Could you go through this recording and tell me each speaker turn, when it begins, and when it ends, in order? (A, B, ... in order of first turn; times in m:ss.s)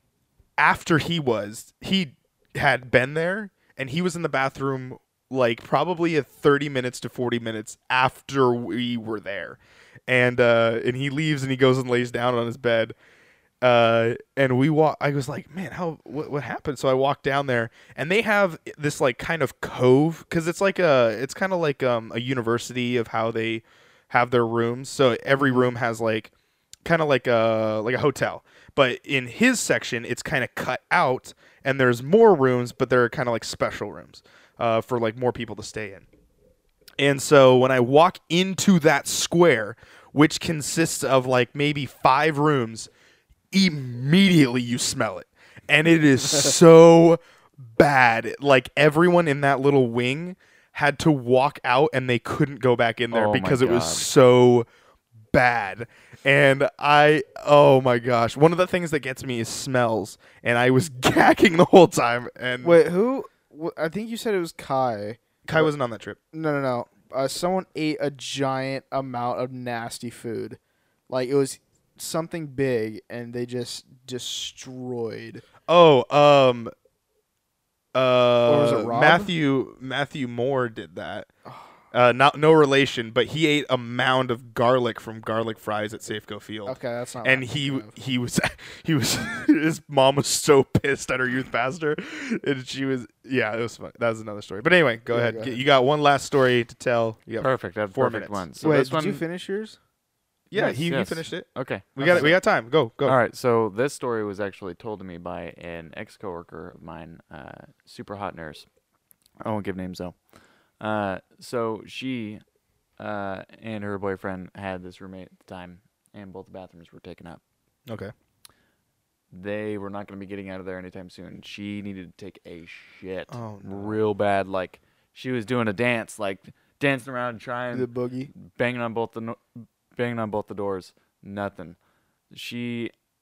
0:00.6-0:13.0 A
0:13.6-0:26.3 A
0:25.4-0:25.7 B
0:26.8-0:36.0 A
0:37.0-0:42.9 A
0:43.5-0:54.6 A
0:53.1-0:54.1 C
0:55.3-1:02.8 A
1:02.6-1:05.7 B
1:05.4-1:06.2 A
1:06.3-1:15.5 B
1:15.7-1:16.7 A
1:17.9-1:21.3 A
1:18.4-1:19.3 B
1:21.4-1:21.7 B
1:21.9-1:38.4 A
1:26.6-1:27.9 B
1:35.1-1:35.6 B
1:37.4-1:39.2 C
1:38.6-1:39.8 B
1:40.5-1:43.2 A
1:40.5-1:42.5 C
1:42.0-1:42.3 B
1:43.0-1:48.7 C
1:49.4-1:50.2 C
1:50.8-1:52.4 C
1:53.0-1:57.4 C
1:57.9-1:58.1 A
1:59.3-2:11.8 C
2:03.3-2:04.0 A
2:07.7-2:08.3 B
2:12.3-2:12.9 C